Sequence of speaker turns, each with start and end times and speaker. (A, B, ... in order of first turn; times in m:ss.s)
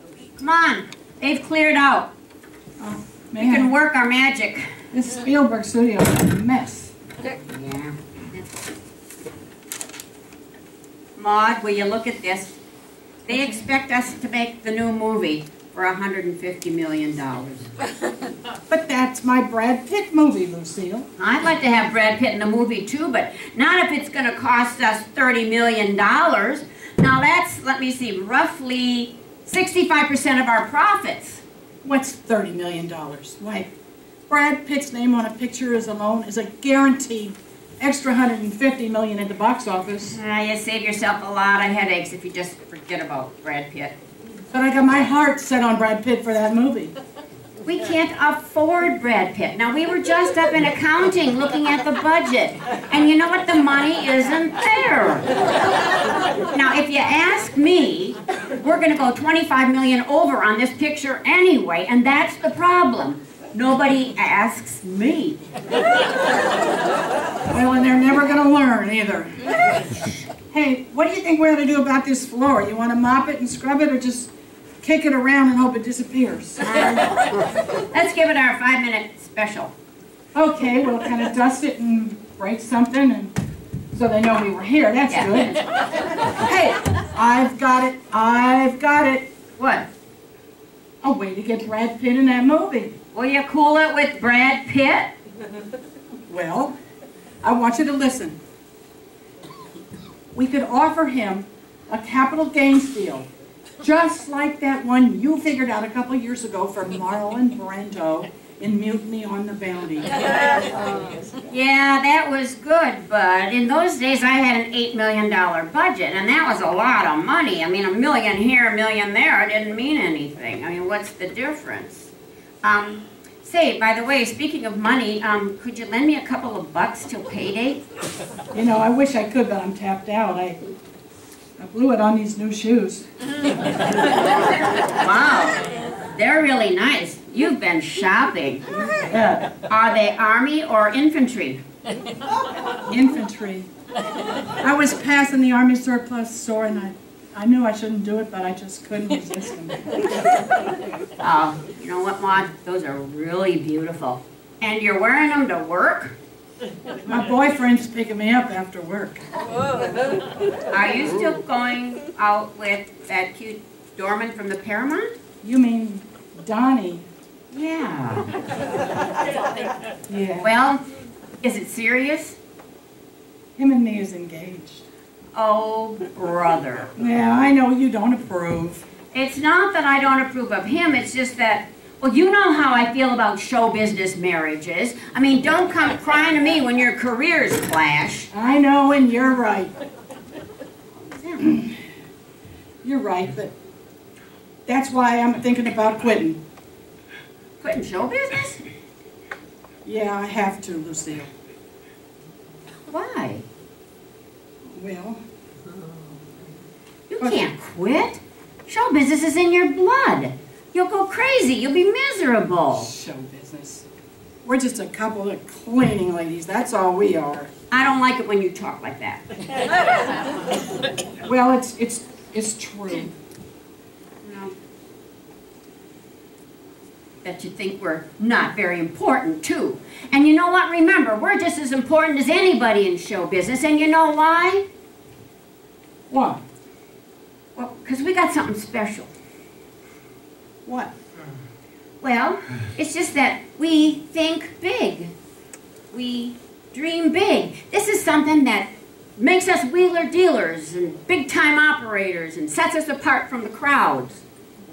0:00.4-0:02.1 A
0:02.8-0:03.7 B
0:03.4-0:04.7 A
0:04.9-0:06.9 B
0:07.2-0:08.0 A
0:11.2-0:12.6 A
0:13.3-0:17.7 A
0:13.3-0:13.7 B
0:18.7-0:21.1 B
0:21.2-0:31.4 A
0:31.8-0:33.7 B
0:34.3-0:40.2 B
0:40.1-0:44.0 A
0:44.5-0:46.9 B
0:47.6-0:55.3 A
0:56.4-1:05.4 A
1:07.5-1:09.4 B
1:10.5-1:17.0 B
1:16.6-1:19.7 A
1:20.3-1:23.3 B
1:23.9-1:25.6 B
1:25.1-1:25.6 A
1:26.2-1:26.7 A
1:26.4-1:29.3 B
1:29.6-1:29.9 A
1:31.0-1:33.0 B
1:33.1-1:35.1 A
1:36.3-1:36.8 B
1:37.4-1:38.4 B
1:40.3-1:43.3 B
1:43.8-1:50.6 B
1:51.5-2:02.1 A
2:02.6-2:07.8 A
2:08.5-2:10.6 B
2:11.6-2:13.1 B
2:15.0-2:15.6 A
2:16.1-2:18.6 A
2:19.1-2:19.5 B
2:19.6-2:21.6 A
2:22.9-2:23.7 B
2:24.6-2:30.0 B
2:31.2-2:36.2 A
2:37.1-2:39.2 B
2:40.7-2:45.2 A
2:45.4-2:47.1 B
2:47.5-2:48.3 A
2:50.1-2:50.5 B
2:50.4-2:50.8 A
2:51.4-2:52.4 A
2:53.6-2:54.9 B
2:55.4-2:56.9 A
2:57.0-2:58.9 B
2:59.1-3:08.3 A
3:08.3-3:09.7 B
3:11.0-3:11.5 A
3:11.4-3:11.8 B
3:12.8-3:13.5 B
3:14.7-3:16.4 B
3:17.6-3:18.6 A
3:19.8-3:21.3 B
3:22.9-3:23.4 A
3:24.7-3:25.2 B
3:27.1-3:32.9 A
3:27.2-3:27.5 B
3:32.7-3:33.9 B
3:34.4-3:37.5 B
3:37.7-3:39.2 A
3:41.2-3:43.1 B
3:44.2-3:44.5 A
3:47.2-3:54.6 A
3:56.1-3:56.4 B
3:57.6-3:59.1 A
4:00.6-4:00.9 B
4:02.0-4:05.1 A
4:05.9-4:14.2 A